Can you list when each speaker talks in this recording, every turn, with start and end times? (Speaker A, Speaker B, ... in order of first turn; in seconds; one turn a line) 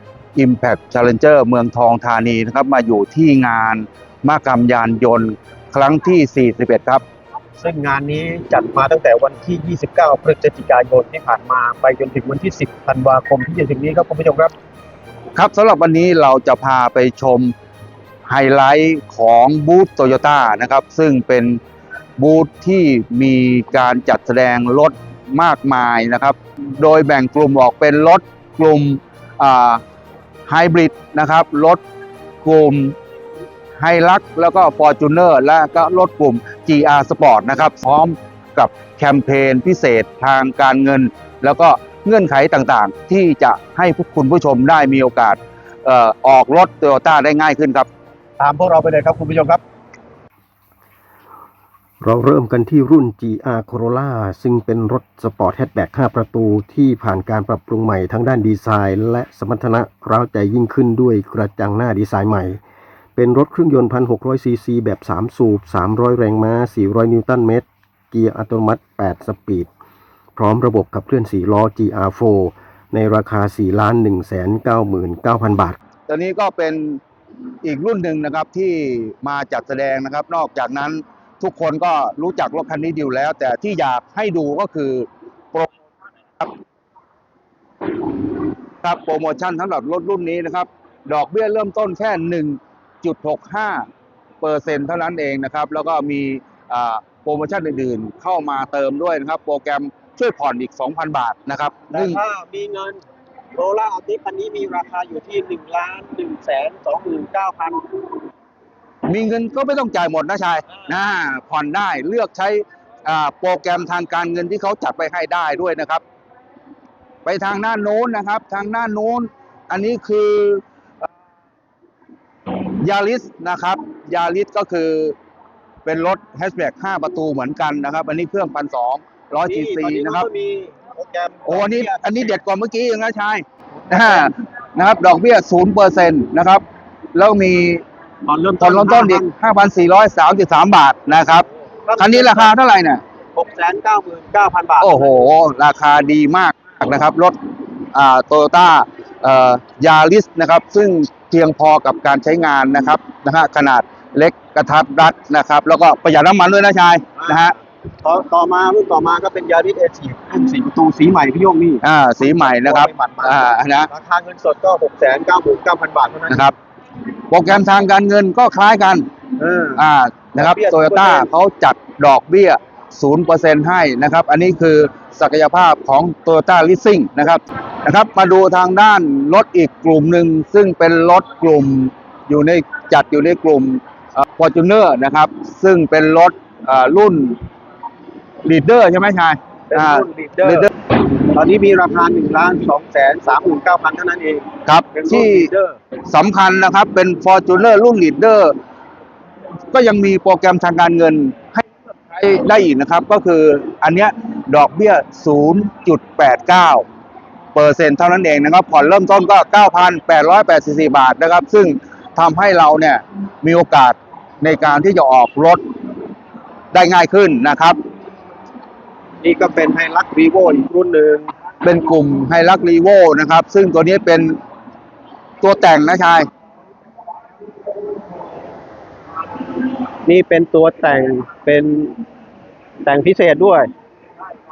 Speaker A: 0.3-7.0
Speaker B: 7.6-14.5
Speaker A: 15.3-17.5
Speaker A: 18.2-21.6
Speaker A: 22.2-29.8
Speaker A: 30.5-31.8
Speaker A: 32.4-32.9
Speaker A: 33.8-47.9
Speaker B: 48.4-49.6
Speaker C: 52.0-62.6
Speaker C: 63.1-69.7
Speaker C: 70.3-75.8
Speaker A: 76.1-77.0
Speaker A: 77.6-85.7
Speaker A: 88.8-93.8
Speaker A: 94.4-102.2
Speaker B: 101.9-103.0
Speaker B: 103.5-107.8
Speaker A: 109.1-116.0
Speaker A: 117.2-121.1
Speaker A: 122.8-125.2
Speaker A: 125.8-130.3
Speaker B: 129.4-132.4
Speaker A: 131.4-136.6
Speaker B: 133.8-134.3
Speaker A: 137.1-137.8
Speaker B: 138.2-139.3
Speaker A: 138.6-143.0
Speaker B: 141.8-142.5
Speaker B: 143.3-145.0
Speaker A: 144.8-147.4
Speaker A: 147.9-157.6
Speaker B: 157.2-157.5
Speaker B: 158.0-166.5
Speaker A: 161.8-163.9
Speaker A: 166.3-166.5
Speaker A: 167.3-169.1
Speaker B: 169.4-169.8
Speaker A: 169.8-187.3
Speaker B: 170.4-171.3
Speaker A: 188.4-190.7
Speaker B: 189.7-190.7
Speaker B: 191.2-195.8
Speaker A: 194.6-195.5
Speaker A: 196.1-198.5
Speaker A: 199.7-206.8
Speaker A: 207.5-215.6
Speaker A: 216.7-217.8
Speaker B: 219.2-221.3
Speaker A: 221.6-224.4
Speaker A: 225.4-226.3
Speaker B: 230.0-232.0
Speaker B: 232.8-233.7